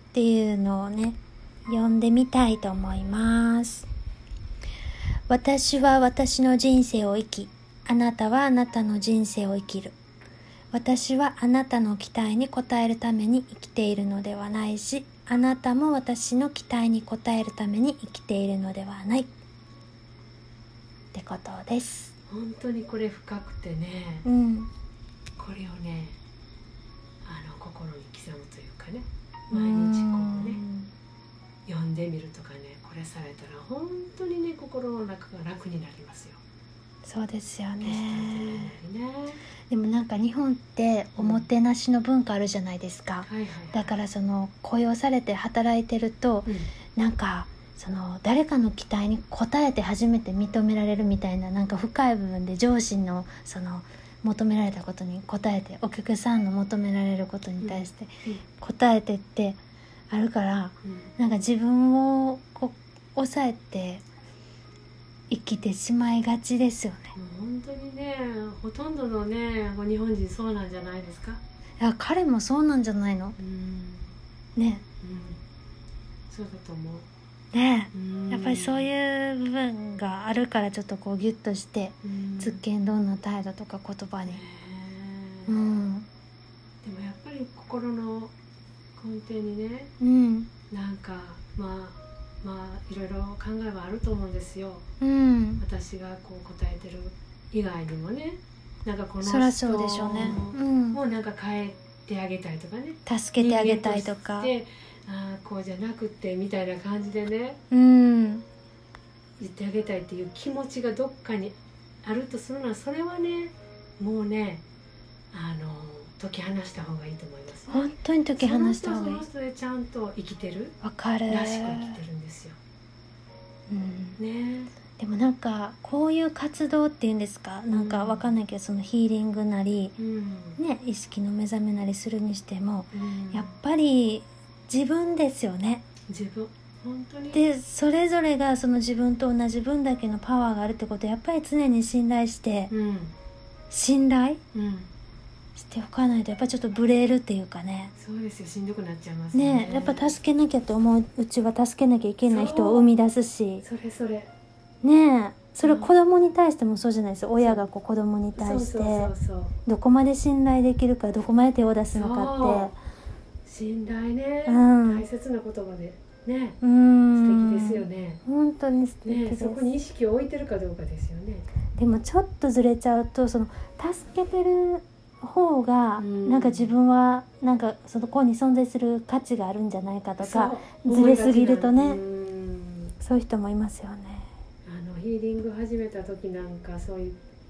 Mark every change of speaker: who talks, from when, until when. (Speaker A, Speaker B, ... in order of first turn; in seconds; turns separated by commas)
Speaker A: 0.1-3.9, Speaker A: 5.3-9.9, Speaker A: 10.7-19.3, Speaker A: 21.1-22.1, Speaker B: 22.3-24.3, Speaker A: 24.2-24.7, Speaker B: 25.4-26.2, Speaker B: 27.2-30.6, Speaker A: 29.5-30.9, Speaker B: 31.6-36.4, Speaker A: 37.0-38.7, Speaker B: 37.8-39.4, Speaker A: 39.7-64.0, Speaker B: 41.2-41.5, Speaker B: 43.2-43.9, Speaker B: 57.6-58.4, Speaker B: 60.8-61.1, Speaker A: 65.3-67.1, Speaker B: 67.1-71.4, Speaker A: 71.8-73.4, Speaker B: 73.4-74.1, Speaker A: 74.5-74.8, Speaker B: 75.0-75.4, Speaker B: 76.3-77.1, Speaker A: 77.5-84.4, Speaker B: 77.9-78.9, Speaker B: 82.0-82.6, Speaker B: 84.2-85.5, Speaker A: 85.5-86.1, Speaker B: 86.8-88.3, Speaker B: 89.0-89.9, Speaker A: 90.0-90.5, Speaker B: 90.7-94.8, Speaker A: 95.0-95.6, Speaker B: 95.6-107.6, Speaker A: 99.2-101.0, Speaker A: 103.0-104.5, Speaker A: 107.7-108.4, Speaker B: 109.4-114.6, Speaker B: 115.3-120.8, Speaker A: 117.7-119.2, Speaker A: 120.8-122.0, Speaker B: 121.3-122.6, Speaker A: 123.7-124.2, Speaker B: 124.2-124.7, Speaker A: 125.0-129.9, Speaker B: 127.7-128.3, Speaker B: 130.0-130.6, Speaker A: 130.6-135.8, Speaker B: 132.9-133.5, Speaker B: 136.1-137.4, Speaker A: 137.3-142.7, Speaker B: 142.7-143.1, Speaker A: 143.7-144.4, Speaker B: 144.5-144.9, Speaker A: 145.5-147.9, Speaker B: 147.9-150.2, Speaker A: 149.3-153.6, Speaker B: 152.2-152.9, Speaker B: 153.6-154.3, Speaker A: 154.8-159.1, Speaker B: 155.6-155.9, Speaker B: 157.4-157.7, Speaker B: 158.3-159.5, Speaker A: 159.7-162.7, Speaker B: 161.9-162.7, Speaker B: 163.4-166.6, Speaker A: 164.4-165.1, Speaker A: 166.6-169.7, Speaker B: 167.1-168.2, Speaker B: 169.0-171.5, Speaker A: 171.8-182.0, Speaker B: 176.0-176.7, Speaker B: 180.2-182.9, Speaker A: 183.0-184.3, Speaker B: 184.6-187.2